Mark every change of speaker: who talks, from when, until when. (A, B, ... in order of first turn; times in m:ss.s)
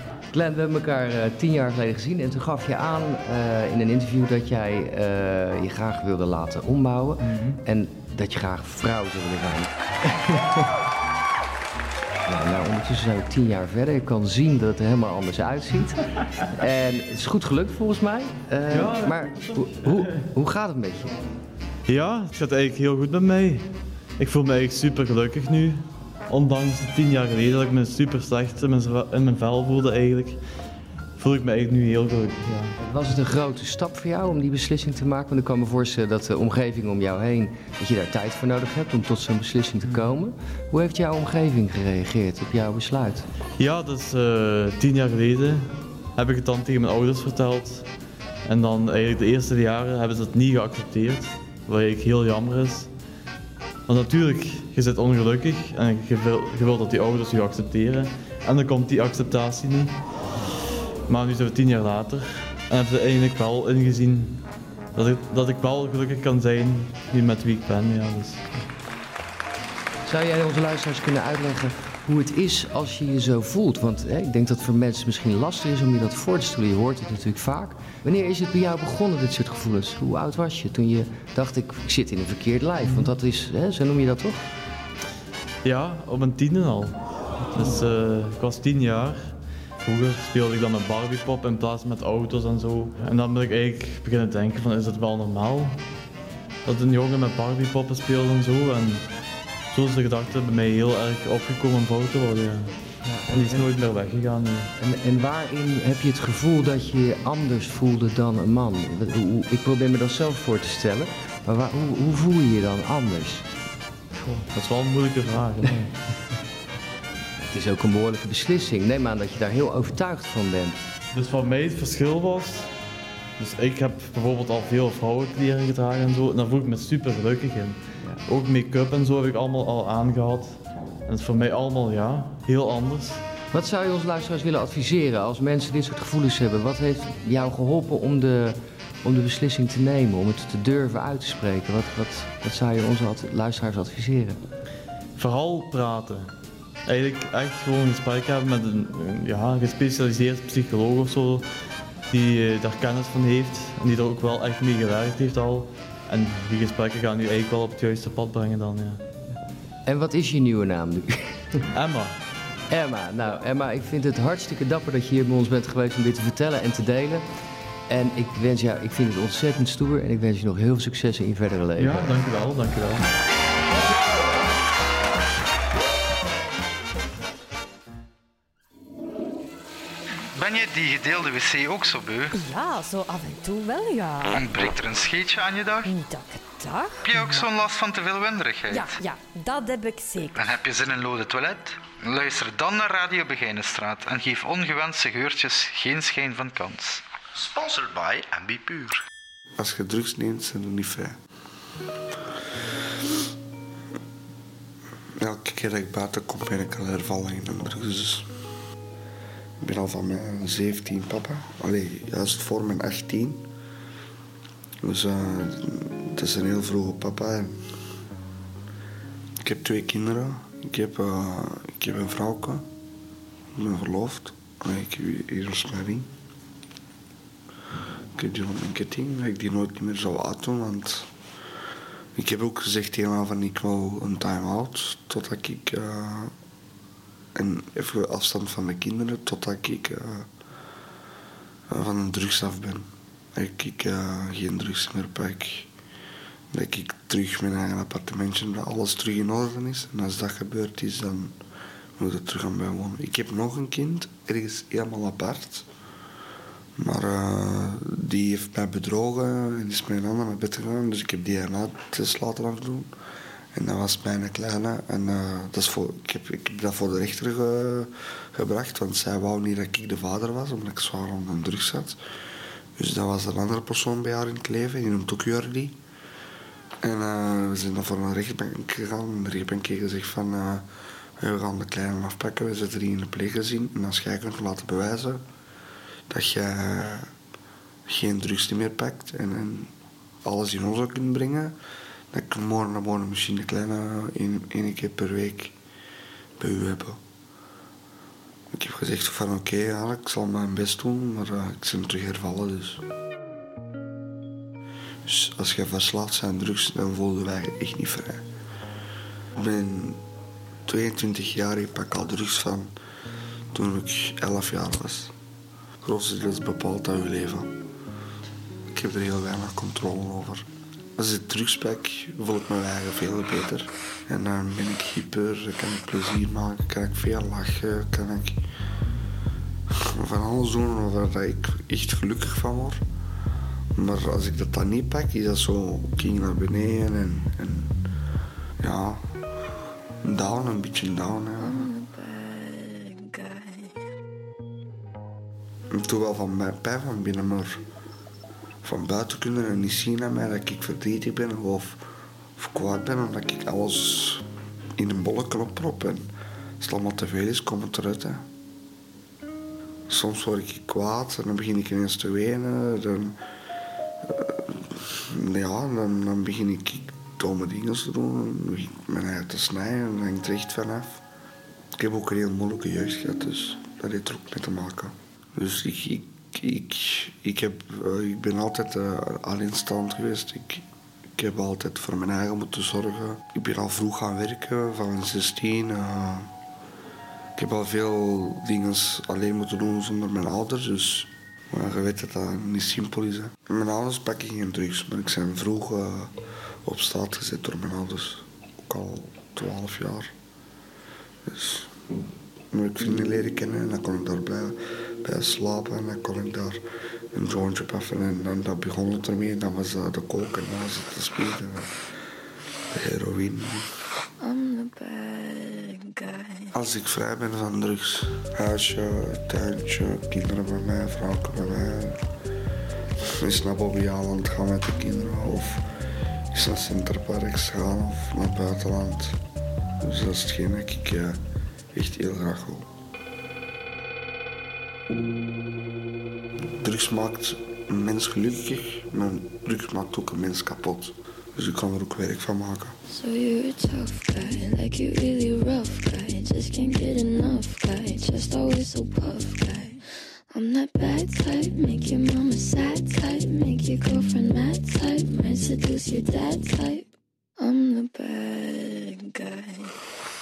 0:00.3-0:09.7 A
0:07.2-0:07.6 B
0:10.3-0:10.6 A
0:12.3-0:16.0 A
0:16.6-0:21.1 A
0:18.7-0:20.3 B
0:21.9-0:30.4 B
0:31.2-0:32.8 B
0:32.8-0:43.3 A
0:43.6-0:47.9 B
0:48.4-0:52.9 B
0:53.9-1:00.0 B
1:01.1-1:04.4 B
1:04.9-1:08.7 B
1:10.0-1:24.5 A
1:22.8-1:23.1 B
1:25.6-1:35.8 B
1:36.6-1:39.1 B
1:39.7-1:44.7 B
1:43.0-1:43.8 A
1:44.8-1:53.4 A
1:54.5-1:56.0 B
1:57.4-2:00.8 A
2:01.1-2:02.7 B
2:03.4-2:13.2 B
2:13.5-2:24.4 A
2:25.2-2:26.3 B
2:26.8-2:39.0 B
2:39.8-2:41.5 A
2:41.7-2:42.2 B
2:42.7-2:47.3 A
2:47.9-2:52.1 A
2:51.8-2:53.0 B
3:00.3-3:02.3 C
3:02.3-3:04.4 D
3:04.3-3:05.9 C
3:05.8-3:07.0 D
3:07.0-3:08.9 C
3:08.7-3:10.4 D
3:10.4-3:18.9 C
3:19.6-3:21.2 E
3:25.2-3:28.3 E
3:29.6-3:33.4 E
3:34.8-3:37.6 E
3:39.4-3:42.6 E
3:43.5-3:46.1 E
3:48.2-3:51.1 E
3:52.2-3:56.3 E
3:57.3-4:00.3 E
4:01.7-4:05.7 E
4:06.5-4:11.4 E
4:12.0-4:15.6 E
4:16.8-4:22.9 E
4:23.5-4:32.0 E
4:32.8-4:35.8 E
4:36.8-4:40.6 E
4:41.2-4:45.2 E
4:46.1-4:47.1 E
4:47.9-4:49.7 E
4:50.2-4:51.5 E
4:52.1-4:55.5 E
4:56.4-4:57.0 E
4:58.5-5:02.8 E
5:05.0-5:08.2 E
5:09.4-5:10.0 E
5:10.7-5:12.7 E
5:13.5-5:15.1 E
5:15.8-5:17.5 E
5:18.7-5:28.4 E
5:29.8-5:32.8 E
5:33.7-5:37.7 E
5:38.6-5:39.0 E
5:40.0-5:41.7 E
5:41.4-5:43.7 F
5:45.7-5:47.6 E
5:48.6-5:51.8 E
5:52.4-5:54.2 E
5:54.8-5:56.1 E
5:56.6-5:58.2 E
5:59.9-6:03.2 E
6:04.0-6:11.0 E
6:11.7-6:20.6 E
6:21.2-6:26.3 E
6:27.4-6:40.1 E
6:41.3-6:41.7 E
6:42.5-6:46.6 E
6:47.1-6:51.7 E
6:52.7-6:53.6 E
6:54.2-6:56.5 F
6:56.5-7:02.0 E
7:03.2-7:05.6 E
7:06.3-7:09.2 E
7:09.8-7:11.2 E
7:11.7-7:12.7 E
7:16.6-7:22.8 E
7:22.9-7:39.7 F